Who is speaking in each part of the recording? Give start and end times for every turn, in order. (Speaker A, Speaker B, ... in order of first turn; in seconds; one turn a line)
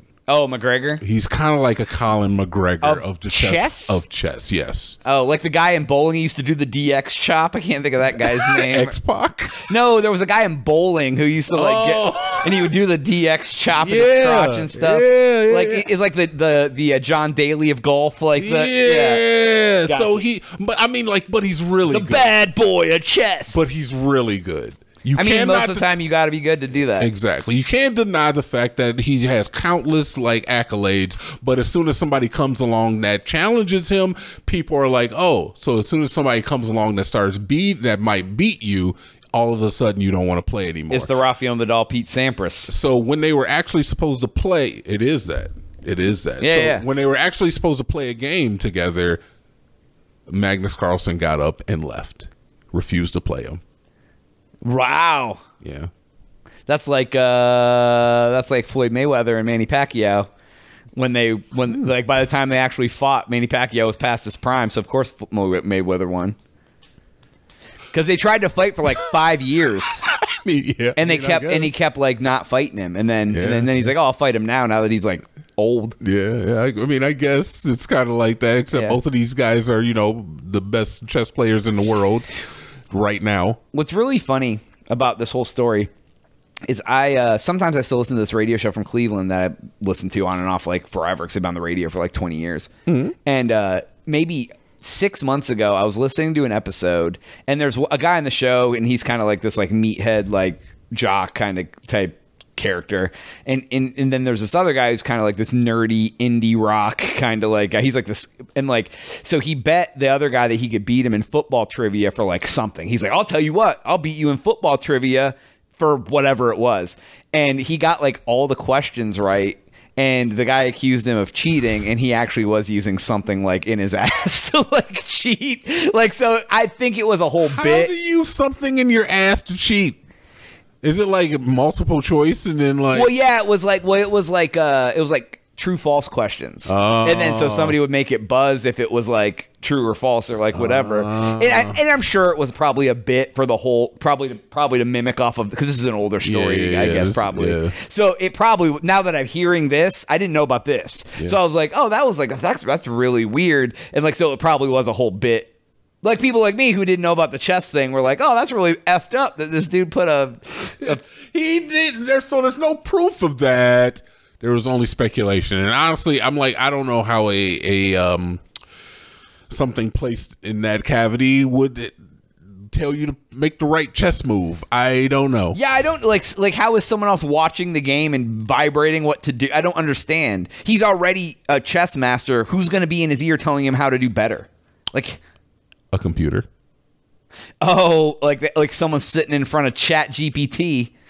Speaker A: 0.3-1.0
Speaker B: 1.0-5.0
Speaker A: 2.8-4.0
Speaker A: 5.0-8.9
Speaker B: 8.2-9.7
Speaker A: 9.6-19.2
Speaker B: 11.5-12.7
Speaker B: 13.8-15.9
Speaker B: 18.4-22.3
Speaker A: 19.9-20.2
Speaker A: 21.9-23.6
Speaker B: 23.5-25.9
Speaker A: 25.1-27.1
Speaker B: 27.0-41.1
Speaker A: 40.9-42.7
Speaker B: 42.7-49.2
Speaker A: 46.4-46.8
Speaker B: 50.3-53.6
Speaker A: 54.6-55.4
Speaker B: 55.6-55.9
Speaker A: 56.7-60.3
Speaker A: 60.9-66.4
Speaker A: 67.9-70.0
Speaker B: 70.1-71.8
Speaker A: 71.0-76.0
Speaker B: 73.3-73.9
Speaker B: 76.0-82.3
Speaker A: 78.7-79.0
Speaker B: 82.9-83.6
Speaker A: 83.7-85.9
Speaker A: 86.7-92.7
Speaker B: 92.9-93.1
Speaker A: 93.2-127.9
Speaker B: 127.4-130.0
Speaker B: 130.8-133.1
Speaker A: 132.9-161.0
Speaker B: 136.7-137.8
Speaker B: 140.5-141.8
Speaker B: 146.2-147.7
Speaker B: 160.8-168.4
Speaker B: 169.5-171.9
Speaker B: 172.7-175.6
Speaker A: 175.5-185.2
Speaker B: 185.9-186.4
Speaker A: 187.6-190.9